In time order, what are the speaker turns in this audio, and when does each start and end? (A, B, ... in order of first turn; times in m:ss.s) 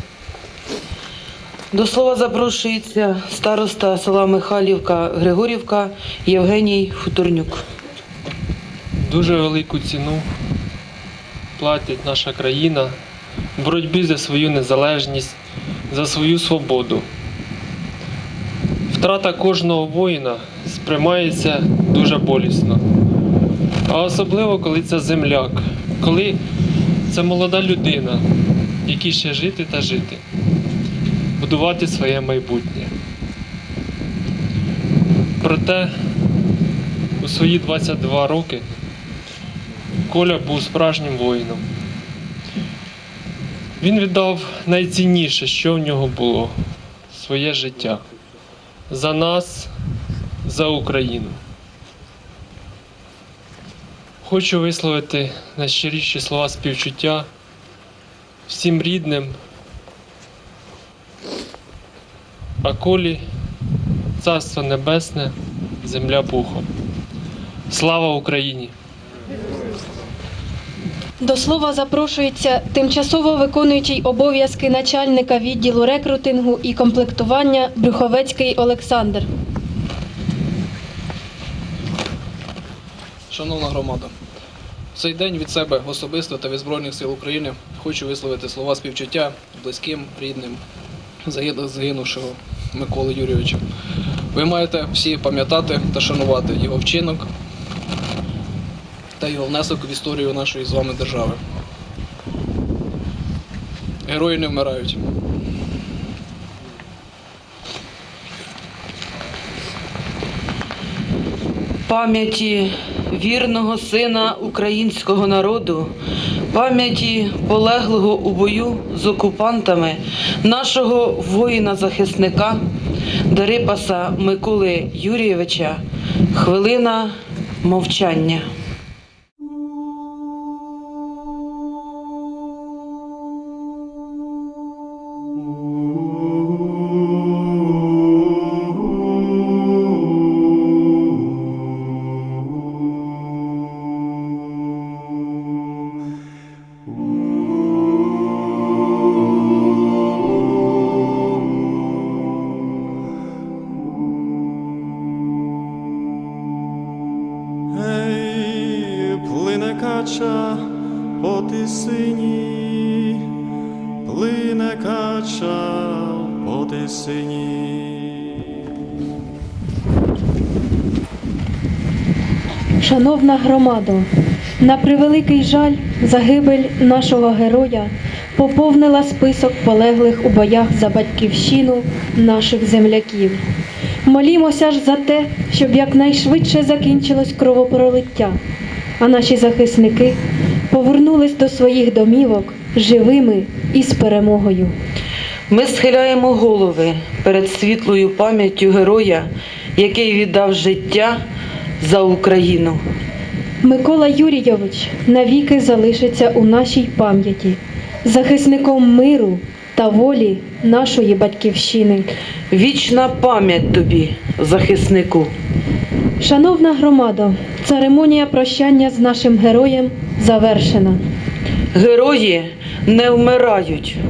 0:01.7-0:07.6 A
0:09.0-0:10.2 B
0:11.6-0:12.9 B
0:13.6-0:15.4 B
0:15.9-0:17.1 B
0:18.9-0:22.8 B
0:23.9-0:26.4 B
0:27.1-0:28.2 B
0:28.8-0:30.2 B
0:31.4-0:32.9 B
0:35.4-0:35.9 B
0:37.2-0:38.6 B
0:40.1-0:41.6 B
0:43.8-0:46.5 B
0:47.1-0:48.0 B
0:48.9-0:49.7 B
0:50.4-0:51.4 B
0:54.2-0:57.3 B
0:58.5-0:59.4 B
1:02.6-1:03.2 B
1:04.2-1:06.6 B
1:07.7-1:08.7 B
1:11.2-1:19.3 C
1:23.3-1:24.1 D
1:25.0-1:30.6 D
1:31.2-1:33.6 D
1:34.3-1:37.3 D
1:39.2-1:41.4 D
1:44.1-1:45.0 D
1:51.9-1:55.9 A
1:56.5-2:02.6 A
2:03.3-2:05.8 A
2:06.3-2:08.5 A
2:37.7-2:43.3 E
2:44.0-2:48.4 E
2:52.8-2:54.1 C
2:54.6-3:03.4 C
3:04.0-3:08.4 C
3:09.0-3:10.2 C
3:10.7-3:14.7 C
3:15.5-3:21.2 A
3:21.8-3:22.8 A
3:23.6-3:32.1 C
3:32.5-3:35.3 A
3:36.2-3:41.0 C
3:41.7-3:44.0 A